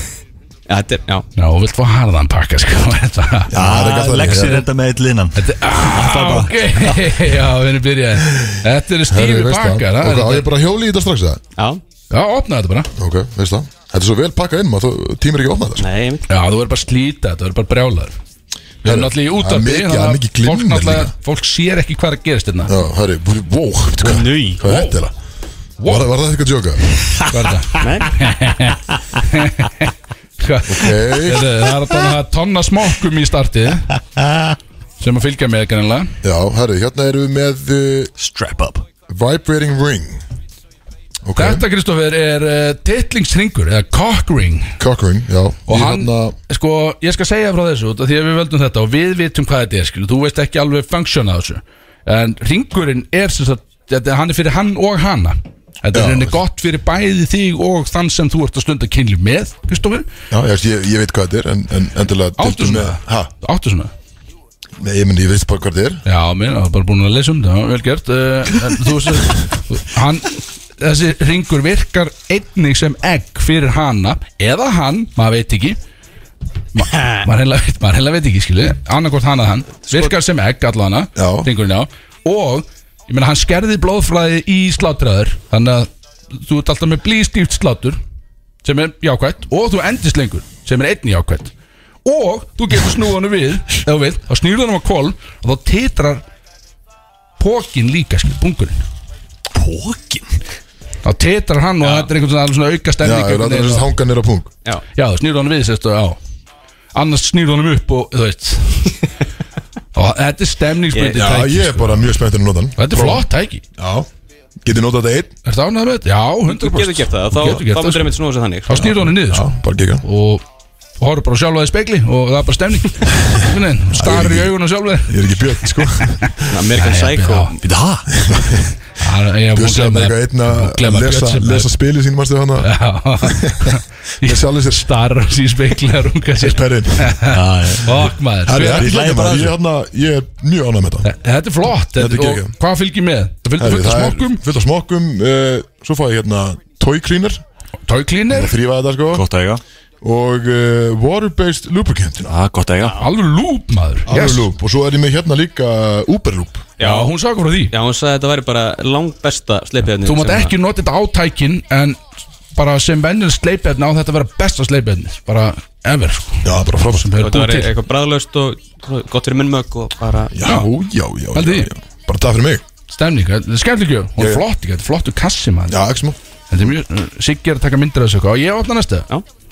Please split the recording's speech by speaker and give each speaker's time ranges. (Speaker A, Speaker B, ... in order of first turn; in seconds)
Speaker A: 0.7-1.3, 15.8-16.3, 24.0-24.6, 27.8-28.2, 101.8-102.1, 116.5-118.9, 126.5-127.7, 152.8-153.1, 156.8-157.1, 157.7-160.5, 167.2-170.3
Speaker B: 1.4-3.5, 5.4-10.5, 12.1-12.9, 16.3-18.1, 18.8-22.7, 24.6-25.0, 25.8-26.1, 27.2-33.9, 35.0-36.1, 41.4-44.8, 45.7-60.1, 62.4-63.9, 66.1-75.8, 76.8-88.0, 88.6-91.5, 92.0-96.2, 97.4-98.8, 101.0-103.9, 105.0-106.2, 107.0-109.0, 110.0-112.2, 112.8-113.6, 115.5-119.5, 120.0-120.4, 121.0-127.5, 129.0-131.7, 132.6-138.9, 141.0-144.4, 147.9-148.5, 153.0-154.5, 156.8-157.7, 160.0-162.0, 162.6-167.7, 170.4-170.7, 171.3-171.7, 172.9-175.8, 176.5-179.1
Speaker C: 3.5-4.7, 8.3-8.6, 9.1-11.4, 13.0-15.9, 18.8-21.1, 22.7-25.1, 25.9-26.8, 30.7-31.6, 36.2-38.1, 39.1-40.2, 41.2-41.7, 44.8-46.4, 55.9-56.4, 60.3-63.3, 64.8-66.0, 81.2-81.5, 103.0-104.5, 111.0-114.1, 114.6-115.3, 118.8-120.0, 123.9-124.5, 125.0-126.7, 128.1-128.8, 129.5-134.9, 136.4-137.2, 138.5-141.1, 142.0-142.6, 143.6-147.4, 148.3-149.3, 150.0-152.3, 154.1-156.7, 166.4-167.1, 170.3-172.6, 174.2-174.4, 175.7-176.2
Speaker D: 3.5-7.2, 38.2-38.8, 99.5-100.4, 127.6-128.1, 137.3-139.6, 149.1-149.6, 152.3-153.0